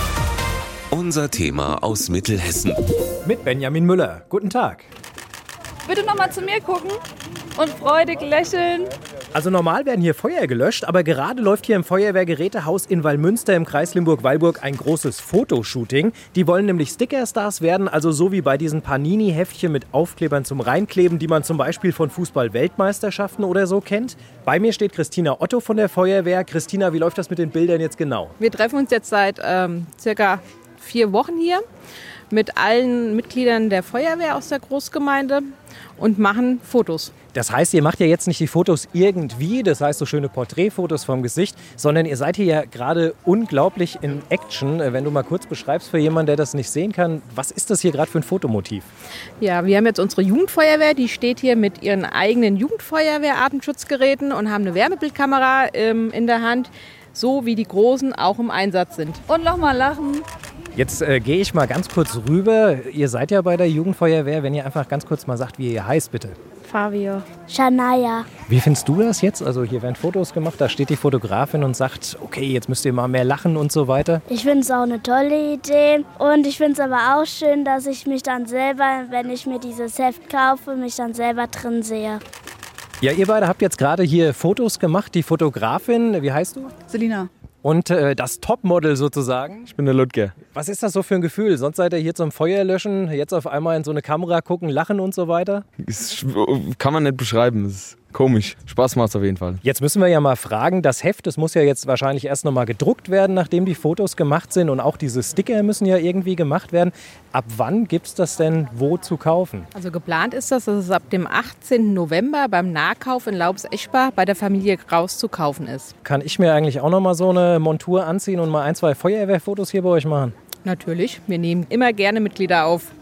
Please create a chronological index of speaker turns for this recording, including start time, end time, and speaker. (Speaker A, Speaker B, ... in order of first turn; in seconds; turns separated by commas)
Speaker A: 0.9-2.8, Speaker B: 3.2-4.9, Speaker C: 5.9-7.0, Speaker C: 7.5-8.9, Speaker B: 9.3-28.4, Speaker D: 28.4-31.6, Speaker D: 32.3-37.1, Speaker B: 37.3-48.9, Speaker D: 49.4-59.2, Speaker C: 59.3-60.2, Speaker B: 60.8-66.3, Speaker C: 66.7-67.3, Speaker E: 67.5-68.3, Speaker B: 68.5-74.2, Speaker E: 74.3-82.2, Speaker B: 83.0-86.7, Speaker C: 86.9-87.3, Speaker B: 87.6-89.7, Speaker F: 89.7-90.4, Speaker B: 90.5-95.6, Speaker F: 95.8-99.6, Speaker B: 99.6-109.7, Speaker D: 109.7-115.9, Speaker B: 116.0-120.3, Speaker D: 120.6-122.9